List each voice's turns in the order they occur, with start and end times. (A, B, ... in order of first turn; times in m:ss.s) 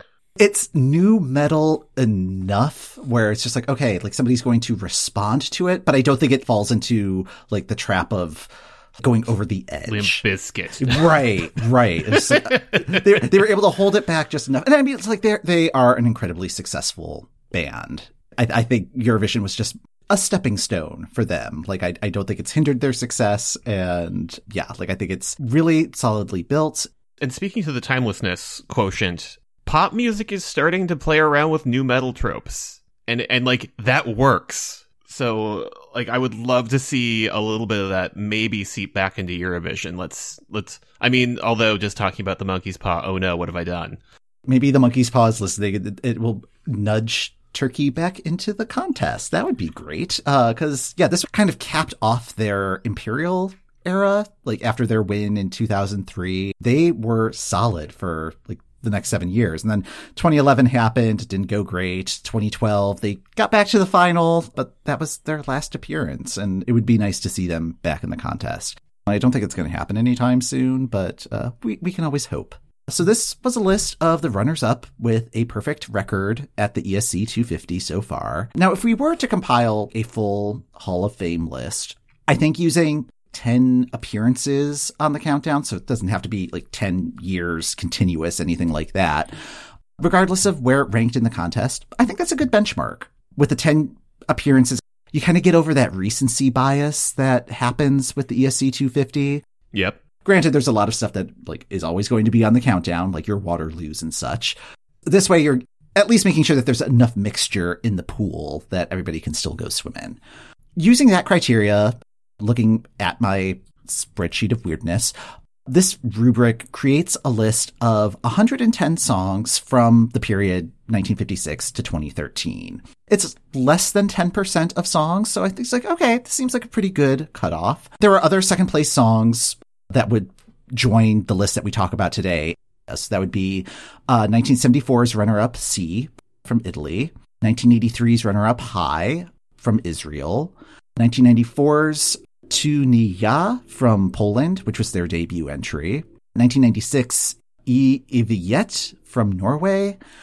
0:00.4-0:10.2 A
0:09.9-0:11.2 B
0:10.8-0:26.9 A
0:12.1-0:13.1 B
0:27.2-0:44.0 B
0:44.5-1:29.3 A
1:30.0-1:39.4 A
1:39.7-1:40.0 B
1:40.2-1:44.6 A
1:45.1-1:50.2 A
1:50.8-1:55.1 A
1:55.7-2:30.0 A